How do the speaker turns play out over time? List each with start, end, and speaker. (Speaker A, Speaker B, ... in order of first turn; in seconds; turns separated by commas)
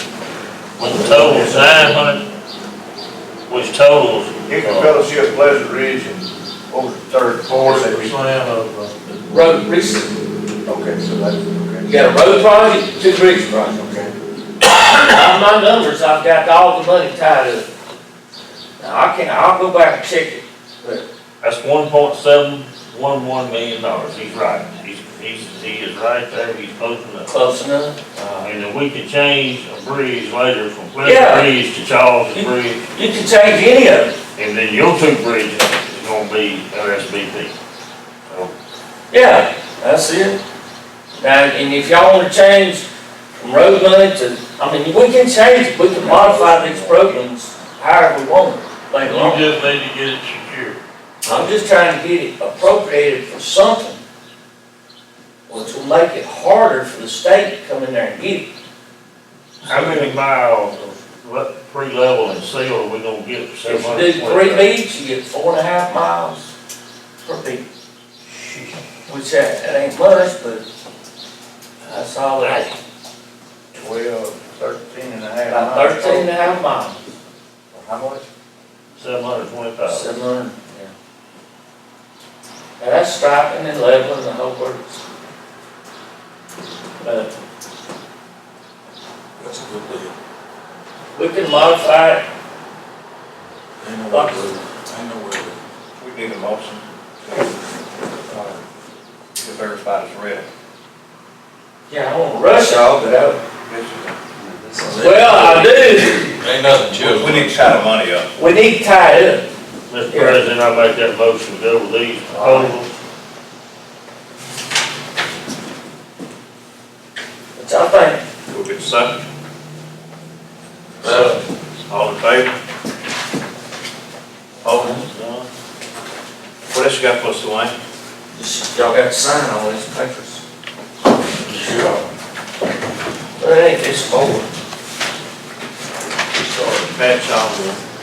Speaker A: 0.8-2.2, Speaker B: 0.8-2.0, Speaker A: 3.5-5.0, Speaker B: 4.5-8.2, Speaker C: 7.6-8.9, Speaker D: 9.3-10.1, Speaker B: 10.7-11.9, Speaker D: 11.8-17.7, Speaker D: 18.8-21.0, Speaker A: 21.4-27.3, Speaker D: 27.3-28.1, Speaker A: 28.1-32.9, Speaker D: 31.0-31.5, Speaker D: 32.3-34.1, Speaker A: 34.4-37.5, Speaker D: 39.1-40.4, Speaker D: 41.2-42.9, Speaker D: 43.4-49.5, Speaker A: 49.0-50.8, Speaker D: 51.2-54.0, Speaker D: 55.5-58.5, Speaker A: 59.6-64.7, Speaker D: 59.8-60.0, Speaker D: 63.6-66.5, Speaker D: 67.2-67.6, Speaker A: 68.3-68.8, Speaker D: 69.0-70.6, Speaker D: 71.8-72.7, Speaker A: 72.4-72.7, Speaker B: 73.7-76.3, Speaker D: 75.5-77.1, Speaker B: 77.7-78.2, Speaker A: 79.0-80.1, Speaker D: 79.9-80.9, Speaker D: 82.8-85.0, Speaker D: 87.0-87.3, Speaker C: 89.4-90.1, Speaker D: 91.1-92.2, Speaker C: 93.8-95.6, Speaker D: 94.1-94.5, Speaker B: 96.0-97.5, Speaker B: 98.3-98.6, Speaker B: 99.3-100.5, Speaker D: 101.9-103.4, Speaker B: 103.6-104.7, Speaker C: 104.8-107.6, Speaker D: 104.9-106.4, Speaker B: 107.0-108.3, Speaker D: 108.3-109.5, Speaker A: 109.9-112.9, Speaker D: 110.1-110.4, Speaker D: 112.3-112.7, Speaker D: 117.5-118.2, Speaker B: 118.5-119.2, Speaker C: 121.0-121.4, Speaker B: 121.9-122.5, Speaker D: 124.7-125.1, Speaker A: 124.7-125.0, Speaker B: 126.7-127.7, Speaker D: 128.3-130.4, Speaker C: 131.5-132.0, Speaker D: 131.6-131.9, Speaker D: 133.4-134.5, Speaker B: 136.3-137.5